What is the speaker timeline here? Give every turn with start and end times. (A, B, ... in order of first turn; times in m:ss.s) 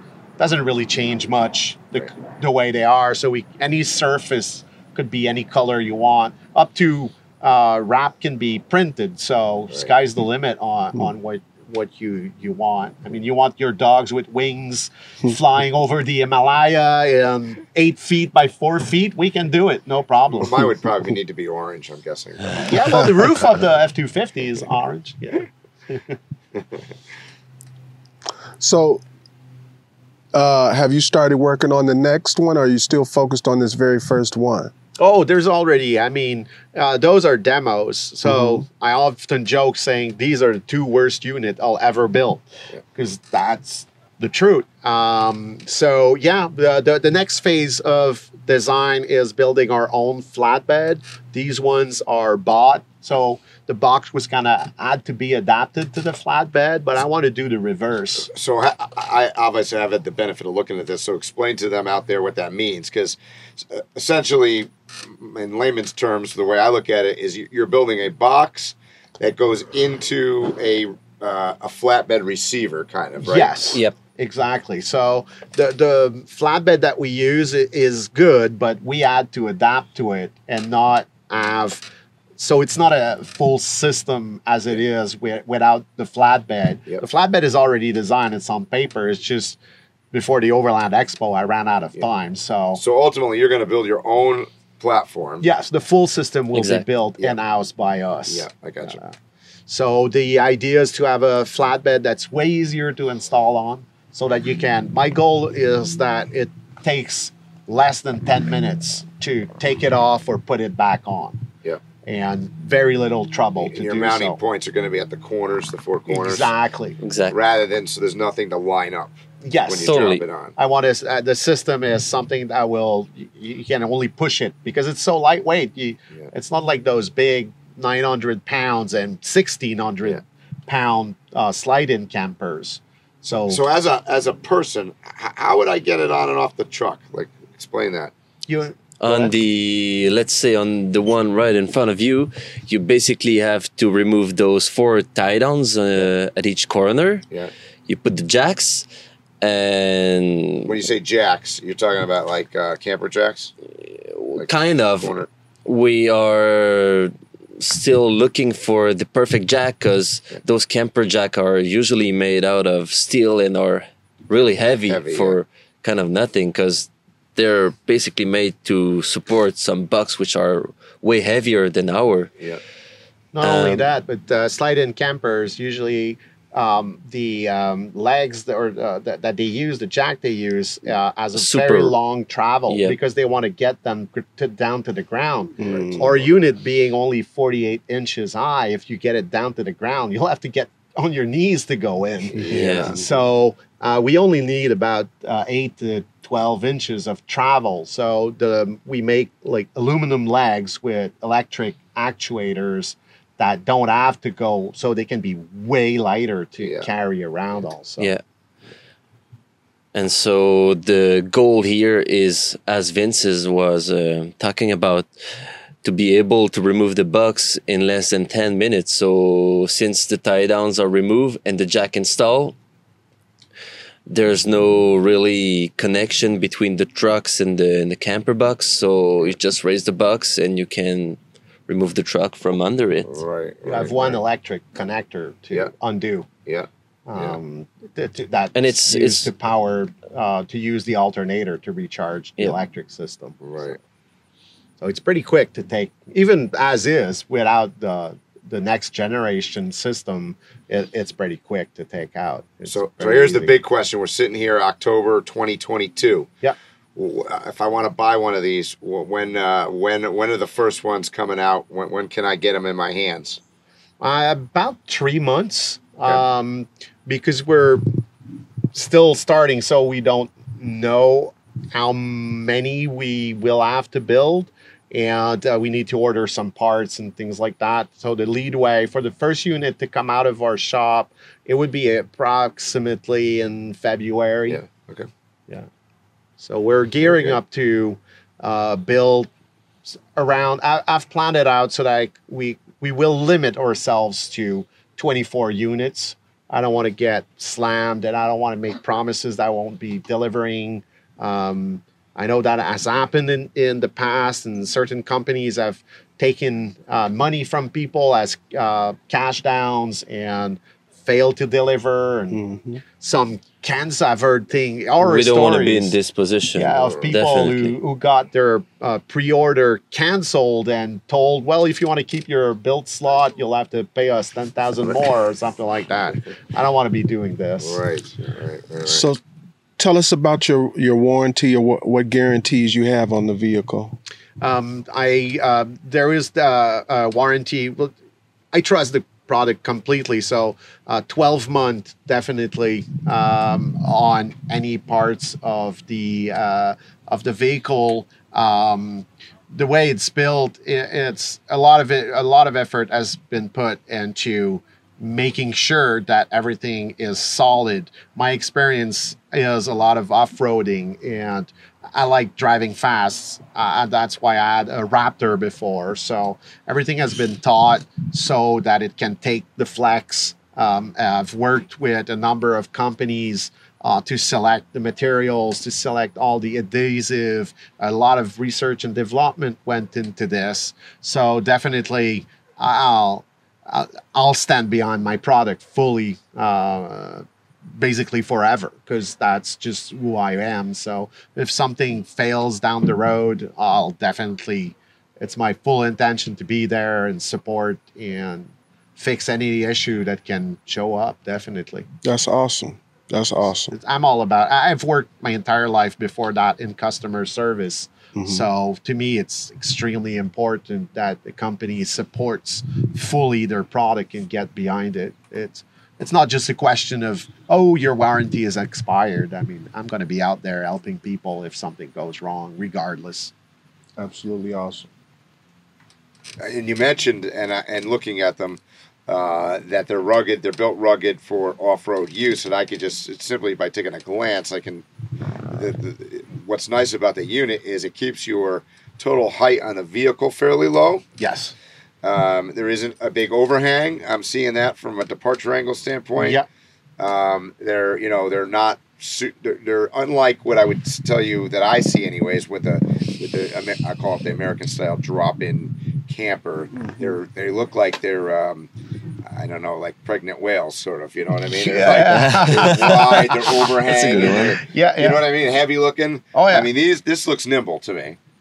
0:00.4-0:20.5 A
0:20.4-0:23.0 B
0:22.6-0:26.2 A
0:28.6-0:29.0 C
0:30.3-0:34.7 C
0:35.0-0:58.3 A
0:38.2-0:38.6 C
0:58.2-1:13.5 B
1:13.2-1:29.6 A
1:30.1-1:32.8 A
1:32.8-1:35.5 B
1:35.4-1:39.1 A
1:36.5-1:36.8 D
1:38.3-1:39.0 B
1:39.7-1:51.4 A
1:52.0-1:54.4 A
1:53.6-1:56.5 B
1:56.1-1:57.0 A
1:57.0-1:57.4 D
1:57.3-1:59.1 B
1:59.4-2:13.6 A
1:59.7-2:00.5 B
1:59.8-2:00.3 D
2:13.5-2:18.1 B
2:18.5-2:19.3 A
2:19.0-2:27.2 D
2:27.9-2:28.9 D
2:29.4-2:30.8 D
2:30.6-2:33.5 B
2:33.9-2:35.1 D
2:34.4-2:35.3 B
2:35.6-2:52.3 D
2:44.9-2:45.4 B
2:53.3-3:28.1 A
2:53.4-2:53.8 D
3:01.4-3:02.0 D
3:02.7-3:03.0 D
3:05.6-3:06.2 C
3:12.3-3:13.0 B
3:12.5-3:13.0 D
3:26.6-3:26.9 B
3:29.9-3:35.1 D
3:35.8-3:42.6 D
3:44.1-3:53.2 D
3:53.0-3:54.2 B
3:53.6-3:56.3 A
3:56.5-3:57.4 B
3:57.1-4:03.4 A
3:58.6-3:59.3 D
4:03.4-4:03.8 B
4:04.8-4:13.5 A
4:12.7-4:16.3 B
4:17.0-4:23.4 B
4:24.0-4:27.8 A
4:28.7-4:44.6 A
4:44.5-4:45.1 B
4:46.4-4:49.3 A
4:47.0-4:47.4 B
4:49.9-5:12.4 A
5:12.3-5:12.8 C
5:13.0-5:16.0 A
5:15.0-5:17.8 D
5:16.5-5:27.8 A
5:16.8-5:17.1 B
5:27.6-5:29.0 B
5:28.8-5:29.2 C
5:29.8-5:34.0 C
5:34.4-5:37.9 A
5:38.5-6:27.2 A
6:27.8-6:41.9 A
6:42.0-6:43.7 C
6:43.7-7:03.3 A
6:48.2-6:48.5 C
7:04.0-7:04.9 C
7:06.4-7:14.9 B
7:15.5-7:21.0 B
7:21.2-7:21.5 A
7:22.0-7:26.4 B
7:26.2-7:26.4 A
7:27.0-7:38.7 B
7:36.8-7:37.2 C
7:39.3-7:48.2 B
7:41.5-7:45.2 A
7:42.0-7:43.2 D
7:43.9-7:44.6 D
7:46.3-7:46.7 A